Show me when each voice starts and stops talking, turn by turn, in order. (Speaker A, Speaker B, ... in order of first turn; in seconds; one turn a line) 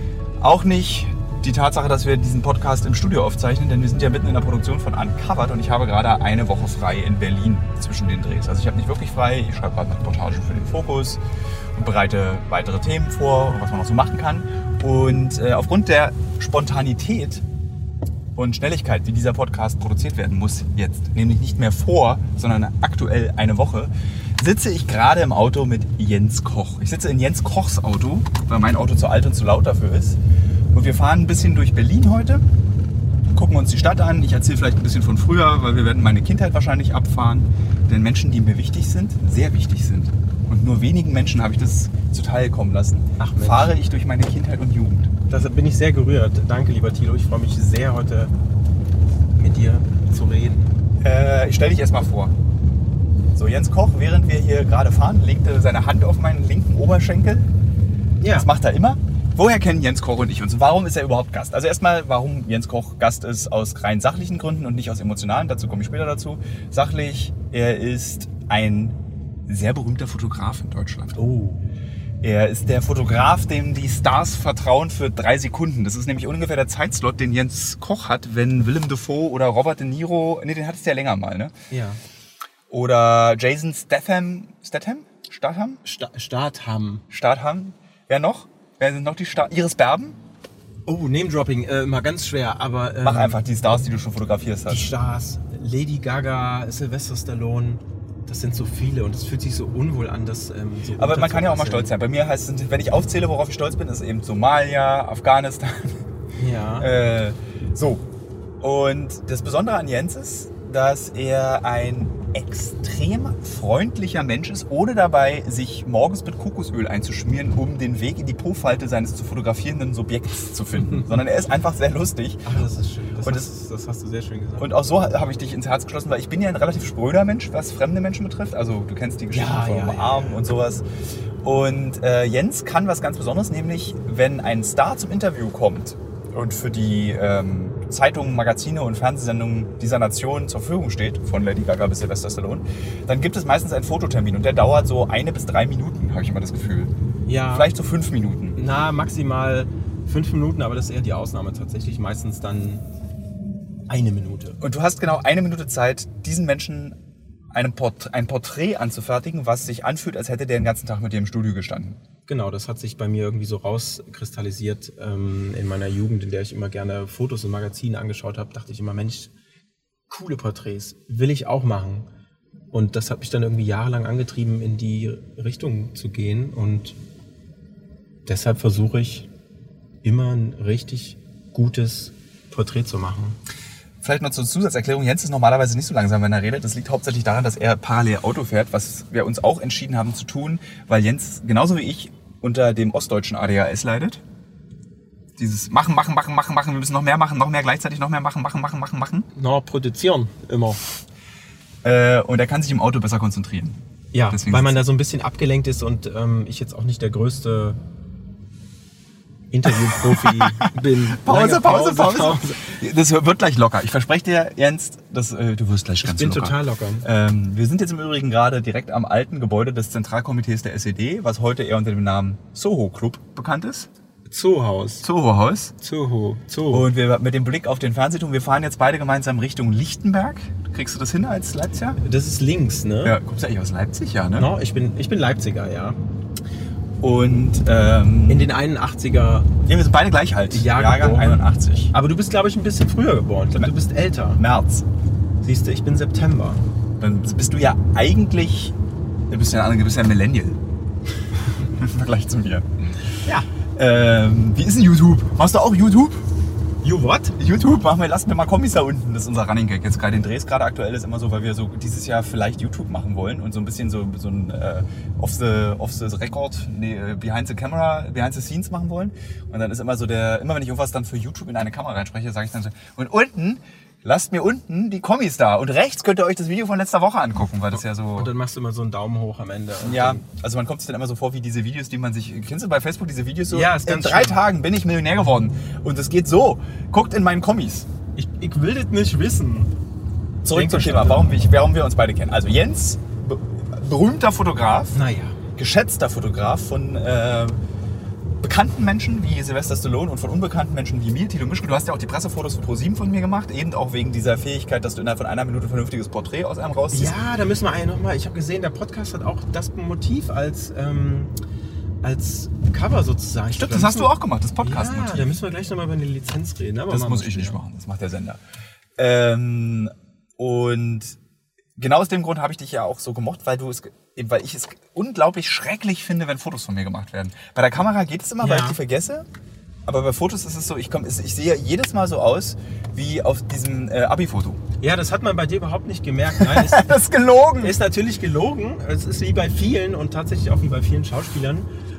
Speaker A: 0.4-11.2
Speaker A: 11.8-17.4
Speaker A: 18.4-30.2
Speaker A: 30.7-32.4
Speaker A: 33.3-45.1
Speaker B: 43.2-43.8
Speaker B: 45.3-48.3
Speaker B: 49.4-50.8
Speaker A: 51.0-52.3
Speaker A: 53.4-57.5
Speaker B: 58.2-58.5
Speaker A: 58.3-69.0
Speaker A: 69.5-71.2
Speaker B: 71.2-71.7
Speaker A: 72.2-81.5
Speaker B: 81.7-82.0
Speaker A: 82.7-85.8
Speaker B: 85.8-87.0
Speaker A: 87.1-90.2
Speaker B: 90.9-93.4
Speaker A: 93.0-94.9
Speaker B: 94.7-101.9
Speaker A: 101.0-106.0
Speaker B: 106.4-106.9
Speaker A: 106.8-108.0
Speaker A: 108.6-122.4
Speaker B: 122.5-124.7
Speaker A: 123.2-123.5
Speaker A: 124.6-130.8
Speaker B: 129.3-130.4
Speaker A: 131.4-146.9
Speaker B: 147.3-147.7
Speaker A: 147.5-148.6
Speaker B: 148.6-152.8
Speaker B: 153.9-154.6
Speaker A: 154.6-157.0
Speaker A: 157.5-162.0
Speaker B: 162.3-169.3
Speaker B: 170.1-172.1
Speaker B: 172.7-177.0
Speaker B: 178.3-179.3
Speaker B: 180.0-183.4
Speaker A: 184.0-194.2
Speaker A: 195.4-199.3
Speaker B: 199.3-200.8
Speaker A: 201.8-203.8
Speaker B: 204.1-207.8
Speaker A: 204.3-204.8
Speaker B: 209.5-212.7
Speaker A: 210.2-223.9
Speaker B: 216.0-217.1
Speaker B: 224.3-225.1
Speaker A: 225.0-225.7
Speaker B: 225.8-226.9
Speaker A: 226.7-232.0
Speaker B: 232.0-233.2
Speaker A: 233.0-234.5
Speaker B: 234.4-236.0
Speaker A: 237.0-238.5
Speaker B: 238.3-239.5
Speaker A: 239.7-241.9
Speaker B: 240.5-244.4
Speaker A: 244.4-244.8
Speaker B: 245.4-246.6
Speaker A: 247.0-248.8
Speaker A: 249.3-250.6
Speaker A: 251.6-252.7
Speaker A: 253.8-256.2
Speaker B: 256.8-257.4
Speaker A: 257.4-278.3
Speaker B: 277.7-280.2
Speaker A: 279.8-287.9
Speaker B: 283.5-284.4
Speaker B: 288.2-289.7
Speaker A: 290.4-295.0
Speaker B: 290.5-291.4
Speaker B: 294.9-295.4
Speaker A: 295.6-297.6
Speaker A: 298.4-307.1
Speaker B: 306.9-311.3
Speaker B: 312.0-317.6
Speaker A: 313.5-315.4
Speaker A: 316.9-318.4
Speaker A: 319.0-321.2
Speaker A: 321.8-329.3
Speaker B: 328.4-328.8
Speaker A: 329.9-334.6
Speaker B: 334.8-337.0
Speaker A: 336.4-337.8
Speaker B: 337.6-341.7